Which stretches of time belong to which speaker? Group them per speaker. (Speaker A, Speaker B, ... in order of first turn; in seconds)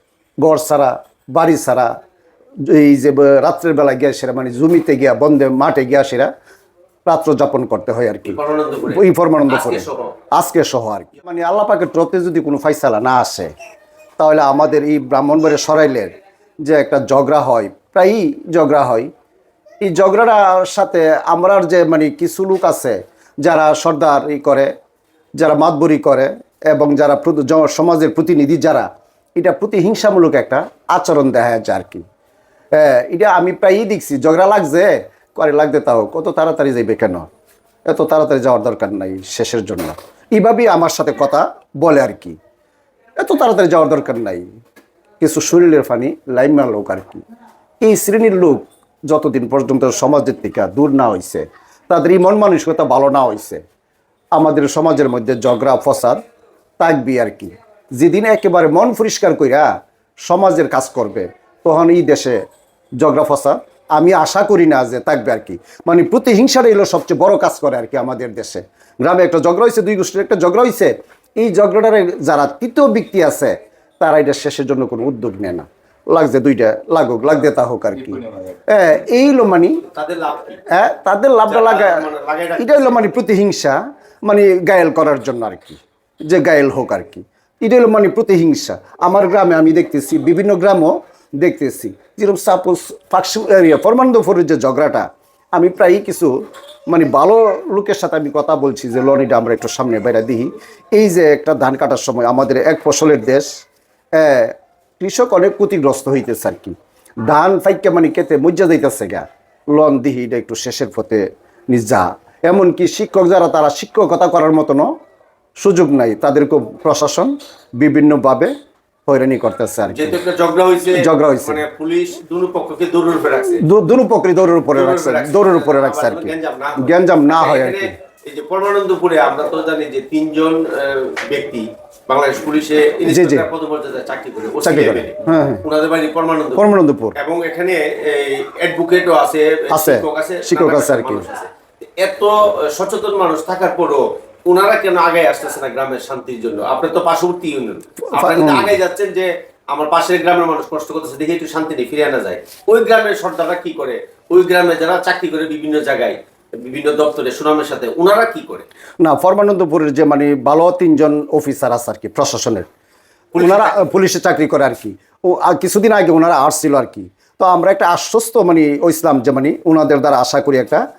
Speaker A: 0.4-1.9, 2.7-6.3, 7.1-13.5, 14.2-16.1, 16.6-19.1, 19.8-24.7, 25.4-32.0, 32.7-37.3, 37.9-42.4, 43.2-44.5, 45.2-47.2, 47.8-53.6, 54.4-56.2, 56.8-59.7, 60.3-62.4, 63.0-79.8, 80.7-82.0, 82.6-96.3, 96.9-103.6, 104.2-106.8, 107.3-114.9, 115.6-118.5, 119.1-120.2, 120.9-121.6, 123.5-127.9, 133.1-133.5, 134.6-135.6, 136.6-137.2, 139.7-141.2, 148.1-148.8, 159.0-162.7, 163.4-170.8
Speaker B: 8.3-10.1, 79.9-80.6, 81.5-83.1, 119.9-123.6, 124.7-158.7, 163.3-163.8